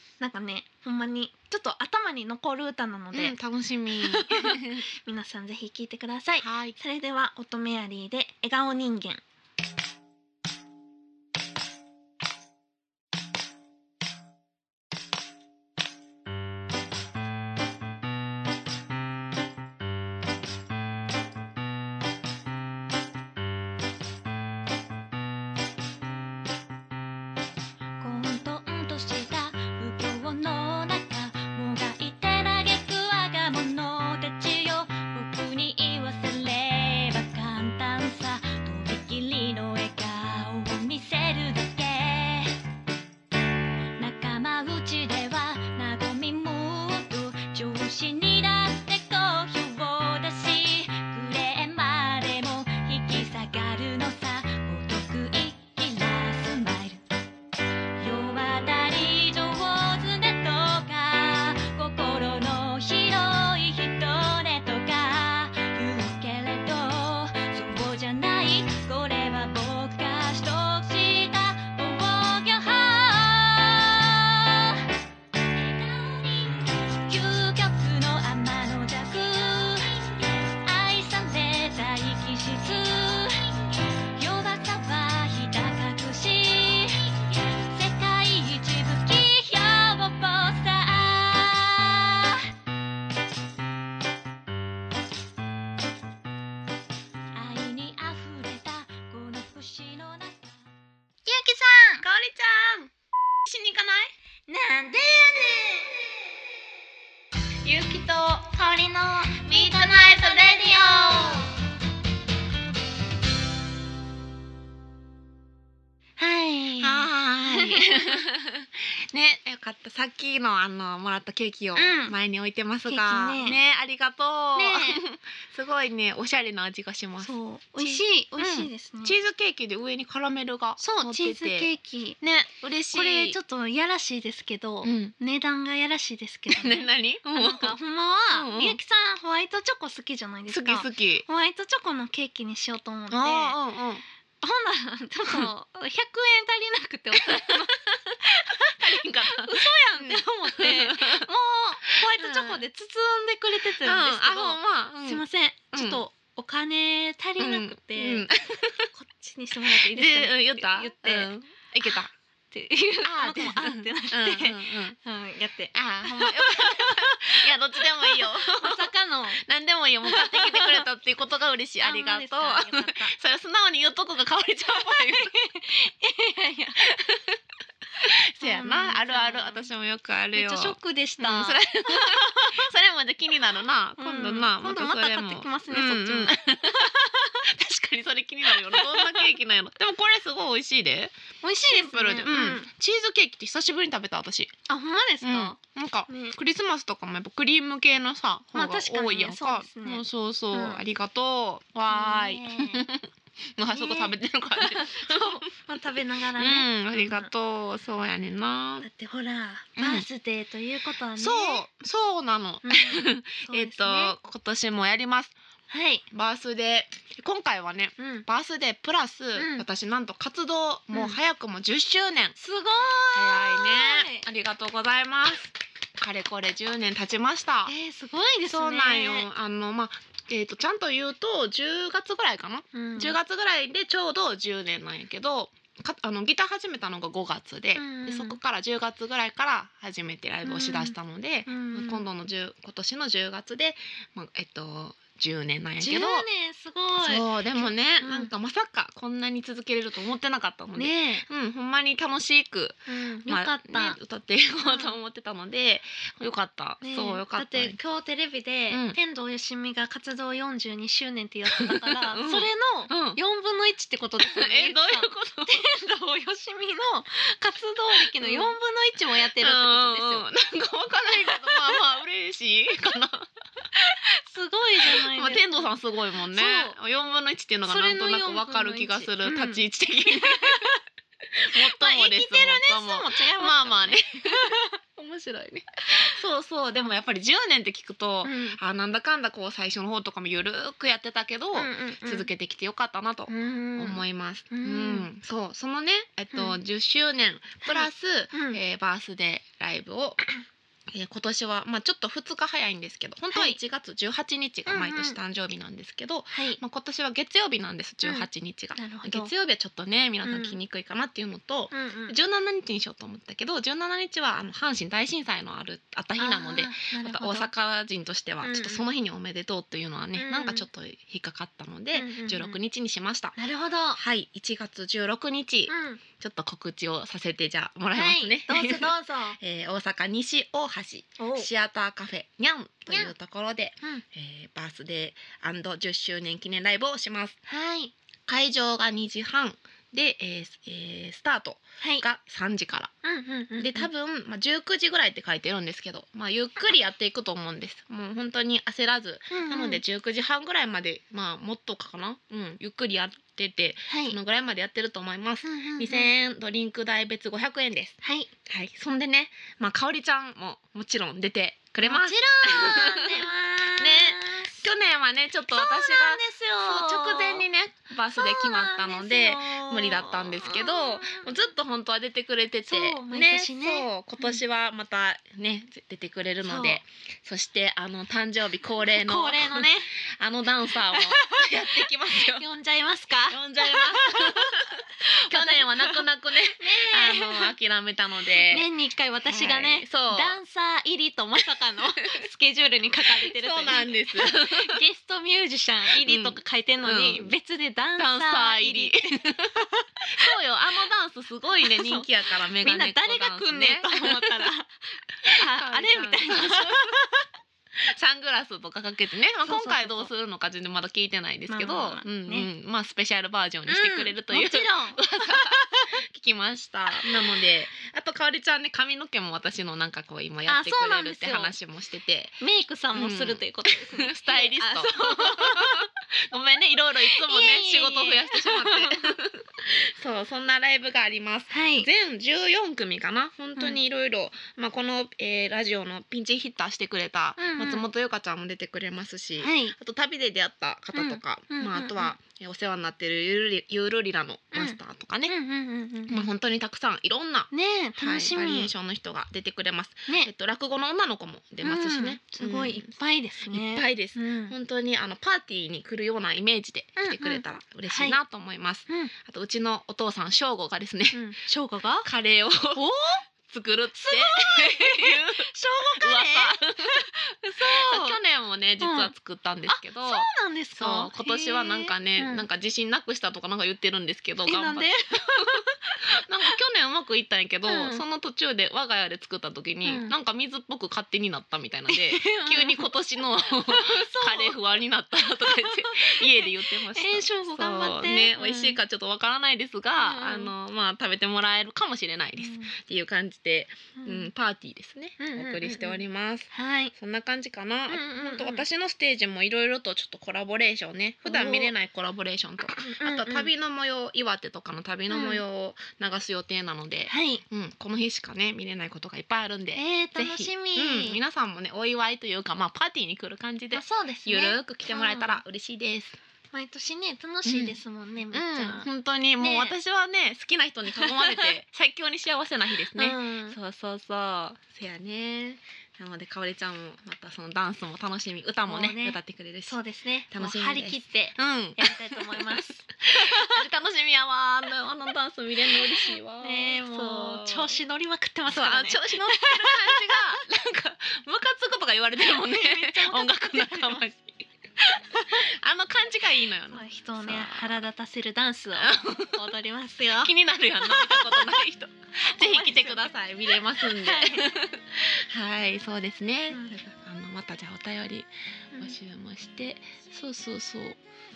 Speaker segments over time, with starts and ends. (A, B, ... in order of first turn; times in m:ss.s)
0:00.2-0:03.4 A
0:03.1-0:04.8 B
0:03.9-0:09.2 A
0:06.4-0:06.8 B
0:28.0-0:42.6 C
0:44.0-0:57.0 C
0:58.0-1:14.9 C
1:15.5-1:32.5 C
1:37.3-1:40.6 C
1:41.2-1:42.1 A
1:42.0-1:42.9 B
1:43.4-1:44.1 B
1:44.5-1:46.1 A
1:47.6-1:48.2 B
1:47.8-1:51.5 A
1:49.4-1:51.4 B
1:56.2-1:58.2 A
1:56.8-2:11.7 B
2:01.8-2:02.2 A
2:02.9-2:03.6 A
2:04.6-2:05.0 A
2:07.2-2:09.2 A
2:10.8-2:12.2 A
2:12.2-2:13.4 B
2:12.9-2:23.6 A
2:14.8-2:15.1 B
2:16.5-2:17.8 B
2:18.3-2:18.8 B
2:20.5-2:21.2 B
2:23.1-2:24.0 B
2:24.4-2:38.3 A
2:27.2-2:27.7 B
2:28.7-2:31.3 B
2:32.0-2:32.6 B
2:33.6-2:36.0 B
2:37.4-2:38.9 B
2:38.9-2:41.3 A
2:39.7-2:42.1 B
2:42.5-2:49.4 A
2:43.0-2:45.0 B
2:45.7-2:55.3 B
2:50.0-2:50.8 A
2:51.8-2:53.1 A
2:54.7-2:56.8 A
2:56.8-2:57.4 B
2:58.0-3:14.5 B
2:58.4-2:59.7 A
3:00.3-3:02.7 A
3:04.0-3:07.5 A
3:08.4-3:09.3 A
3:11.4-3:12.7 A
3:14.7-3:15.6 A
3:15.2-3:25.5 B
3:16.1-3:16.4 A
3:18.5-3:20.8 A
3:21.9-3:22.9 A
3:23.7-3:27.3 A
3:26.4-3:28.9 B
3:28.8-3:31.6 A
3:29.8-3:30.1 B
3:31.2-3:35.4 B
3:32.6-3:34.2 A
3:35.7-3:36.0 A
3:36.1-3:42.4 B
3:38.0-3:38.3 A
3:39.4-3:39.6 A
3:40.9-3:41.2 A
3:42.4-3:44.3 A
3:43.1-3:47.7 B
3:47.6-3:49.3 A
3:48.5-4:06.3 B
3:52.7-3:53.2 A
3:57.8-3:58.4 A
4:00.4-4:01.0 A
4:01.5-4:02.0 A
4:05.8-4:08.3 A
4:06.9-4:17.8 B
4:10.8-4:11.3 A
4:12.9-4:14.0 A
4:14.6-4:14.9 A
4:16.8-4:30.3 A
4:18.7-4:19.0 B
4:21.6-4:23.2 B
4:24.2-4:25.6 B
4:28.2-4:28.6 B
4:29.4-4:33.3 B
4:31.1-4:31.8 A
4:33.8-4:35.7 A
4:34.8-4:40.8 B
4:36.3-4:36.8 A
4:37.6-4:40.8 A
4:41.4-5:00.2 B
4:41.5-4:44.8 A
4:45.9-4:46.2 A
4:48.2-4:48.6 A
4:51.5-4:52.3 A
4:53.3-4:55.1 A
4:56.3-4:56.6 A
4:57.6-4:58.6 A
5:00.9-5:23.4 B
5:03.3-5:03.6 A
5:04.7-5:05.2 A
5:06.3-5:06.6 A
5:08.0-5:09.3 A
5:10.2-5:10.6 A
5:11.7-5:12.2 A
5:16.2-5:17.5 A
5:18.4-5:18.9 A
5:20.1-5:20.7 A
5:21.9-5:22.6 A
5:23.4-5:24.0 A
5:24.0-5:37.4 B
5:25.7-5:26.0 A
5:27.9-5:29.4 A
5:31.2-5:31.5 A
5:32.9-5:33.1 A
5:37.5-5:37.9 A
5:38.3-5:42.9 B
5:41.8-5:42.1 A
5:43.0-5:43.9 A
5:43.6-6:22.5 B
5:49.3-5:49.8 A
5:53.9-5:54.2 A
5:55.4-5:56.1 A
5:58.0-5:58.3 A
6:01.8-6:04.6 A
6:05.5-6:07.4 A
6:08.1-6:11.4 A
6:12.6-6:14.4 A
6:16.4-6:16.8 A
6:18.8-6:19.9 A
6:20.7-6:27.5 A
6:23.3-6:28.7 B
6:28.3-6:40.3 A
6:29.3-6:30.4 B
6:33.1-6:34.8 B
6:35.9-6:37.3 B
6:38.0-6:39.6 B
6:40.1-6:44.5 B
6:41.6-6:47.2 A
6:45.3-6:47.0 B
6:47.8-7:02.4 B
6:49.4-6:50.1 A
6:51.5-6:52.5 A
6:53.7-6:56.0 A
7:00.5-7:01.5 A
7:02.4-7:05.9 A
7:02.9-7:25.4 B
7:07.0-7:09.1 A
7:11.5-7:11.9 A
7:17.4-7:17.9 A
7:19.4-7:19.8 A
7:20.9-7:22.2 A
7:24.5-7:26.3 A
7:26.1-7:32.9 B
7:27.5-7:28.7 A
7:31.6-7:34.6 A
7:33.4-7:41.2 B
7:37.0-7:38.2 A
7:38.9-7:39.1 A
7:41.1-7:42.1 A
7:42.0-7:42.8 B
7:42.7-7:43.2 A
7:43.4-7:55.6 B
7:43.9-7:48.2 A
7:48.8-7:49.1 A
7:49.7-7:52.4 A
7:54.4-7:56.6 A
7:56.2-8:36.2 B
7:57.6-7:58.0 A
7:59.8-8:00.1 A
8:01.9-8:04.6 A
8:05.2-8:08.8 A
8:10.0-8:10.5 A
8:12.4-8:12.7 A
8:14.0-8:14.3 A
8:15.2-8:16.0 A
8:16.5-8:16.9 A
8:17.9-8:18.6 A
8:21.2-8:21.7 A
8:22.8-8:23.5 A
8:25.1-8:25.4 A
8:27.1-8:27.4 A
8:29.8-8:31.2 A
8:33.7-8:35.4 A
8:36.5-8:38.9 A
8:37.4-8:37.8 B
8:38.3-8:49.8 B
8:39.4-8:39.8 A
8:40.9-8:41.6 A
8:42.9-8:43.6 A
8:48.6-8:53.6 A
8:50.3-8:57.8 B
8:56.4-9:00.3 A
8:58.5-9:04.4 B
9:02.2-9:04.0 A
9:04.9-9:05.5 A
9:05.3-9:07.8 B
9:06.7-9:11.6 A
9:08.8-9:09.4 B
9:10.2-9:21.0 B
9:12.4-9:14.6 A